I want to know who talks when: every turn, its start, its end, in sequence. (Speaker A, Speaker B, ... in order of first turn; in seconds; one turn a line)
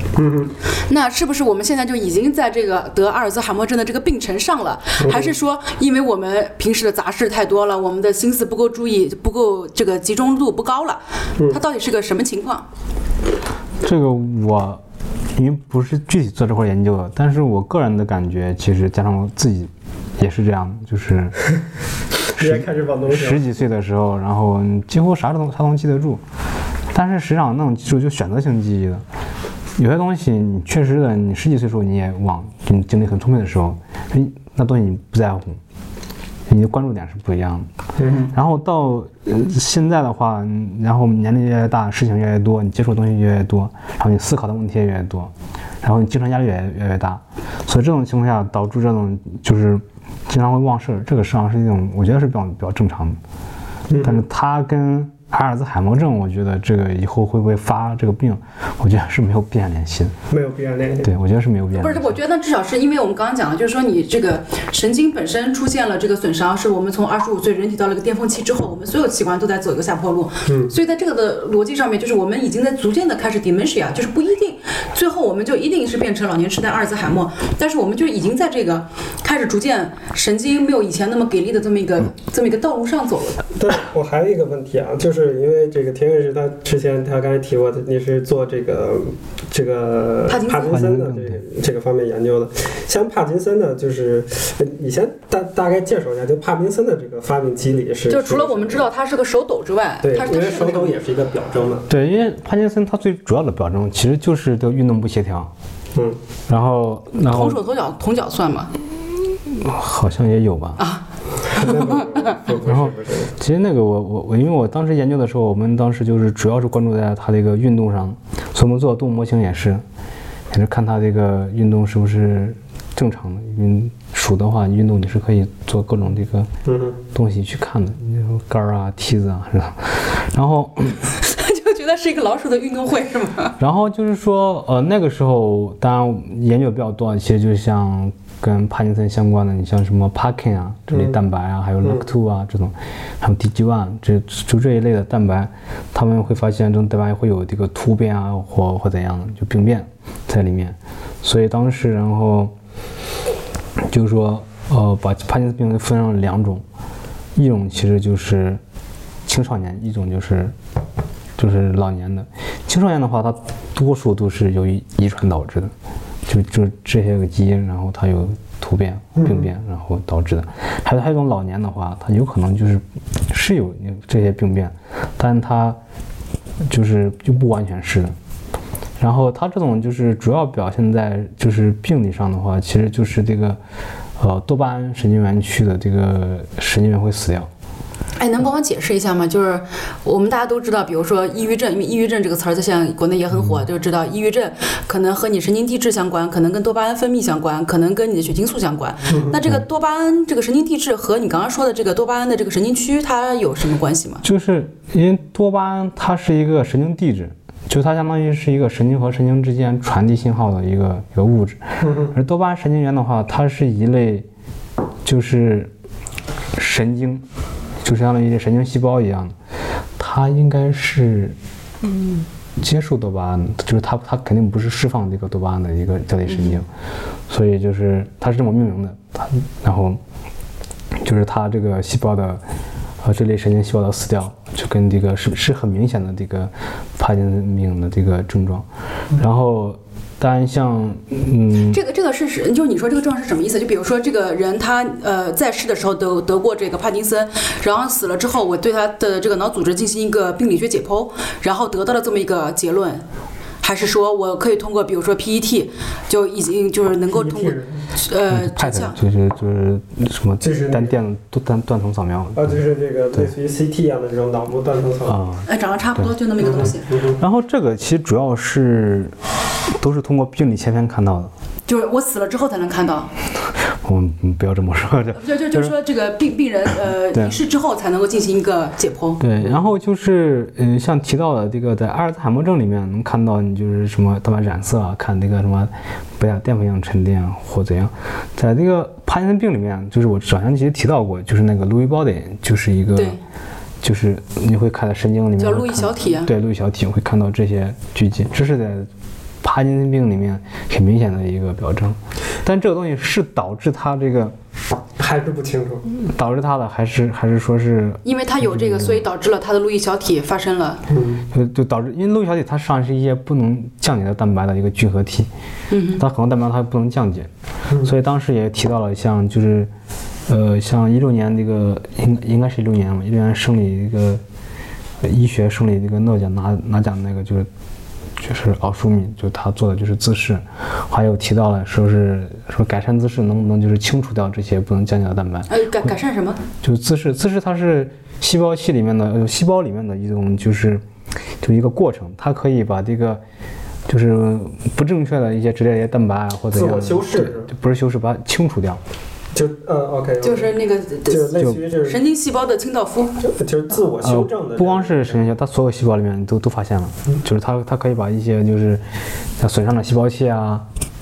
Speaker A: 0.2-0.5
Speaker B: 0.8-12.7
Speaker A: 5.0-5.3
Speaker C: 13.8-14.8
Speaker C: 15.3-21.4
Speaker A: 22.3-23.4
Speaker C: 22.4-26.2
Speaker C: 26.9-29.0
Speaker C: 29.8-35.6
Speaker C: 36.5-37.7
Speaker A: 38.0-38.3
Speaker C: 38.3-53.2
Speaker A: 53.9-54.2
Speaker C: 54.0-60.1
Speaker A: 60.3-61.1
Speaker C: 61.0-62.1
Speaker B: 61.8-83.4
Speaker A: 70.5-70.7
Speaker A: 83.6-98.8
Speaker B: 90.3-90.8
Speaker C: 90.6-91.4
Speaker B: 98.1-101.0
Speaker A: 100.0-101.9
Speaker C: 101.9-105.5
Speaker C: 106.5-107.6
Speaker B: 107.3-108.7
Speaker C: 109.5-110.8
Speaker B: 110.8-112.4
Speaker A: 111.5-113.3
Speaker C: 112.7-119.8
Speaker C: 120.5-126.5
Speaker A: 126.7-127.0
Speaker C: 127.1-131.1
Speaker B: 131.1-133.6
Speaker C: 133.6-152.5
Speaker A: 140.9-141.2
Speaker C: 153.9-156.6
Speaker C: 157.3-158.6
Speaker C: 159.3-160.6
Speaker C: 161.4-165.7
Speaker C: 166.3-175.8
Speaker A: 169.2-169.5
Speaker C: 176.7-178.1
Speaker C: 179.0-183.6
Speaker C: 184.2-187.5
Speaker B: 188.2-204.2
Speaker A: 199.1-199.4
Speaker C: 204.2-214.3
Speaker A: 211.8-212.1
Speaker C: 215.0-215.7
Speaker C: 216.6-217.3
Speaker C: 217.8-219.3
Speaker C: 220.0-226.7
Speaker B: 226.3-226.6
Speaker C: 227.3-230.0
Speaker C: 231.0-232.4
Speaker C: 233.0-241.8
Speaker B: 241.7-253.1
Speaker B: 253.6-259.0
Speaker A: 257.1-257.8
Speaker C: 258.3-262.6
Speaker A: 260.4-261.0
Speaker A: 262.4-265.2
Speaker C: 265.1-269.2
Speaker B: 265.5-266.9
Speaker A: 266.4-267.2
Speaker C: 269.8-271.3
Speaker B: 271.7-273.1
Speaker C: 273.7-275.7
Speaker B: 275.1-279.2
Speaker C: 279.2-293.2
Speaker B: 292.9-293.2
Speaker C: 293.8-298.9
Speaker B: 295.4-296.3
Speaker C: 299.4-304.4
Speaker A: 305.0-305.9
Speaker C: 305.9-309.0
Speaker B: 308.1-310.8
Speaker A: 310.9-311.2
Speaker C: 311.3-315.3
Speaker B: 315.7-316.0
Speaker C: 316.0-317.3
Speaker C: 317.8-319.7
Speaker C: 320.3-324.2
Speaker C: 325.0-327.5
Speaker C: 328.2-335.9
Speaker B: 335.5-336.4
Speaker C: 336.6-340.8
Speaker C: 341.4-343.2
Speaker C: 343.9-348.8
Speaker A: 346.5-347.5
Speaker A: 349.4-350.5
Speaker B: 350.2-353.2
Speaker A: 351.1-352.0
Speaker A: 353.2-355.2
Speaker C: 354.0-358.8
Speaker C: 359.4-360.7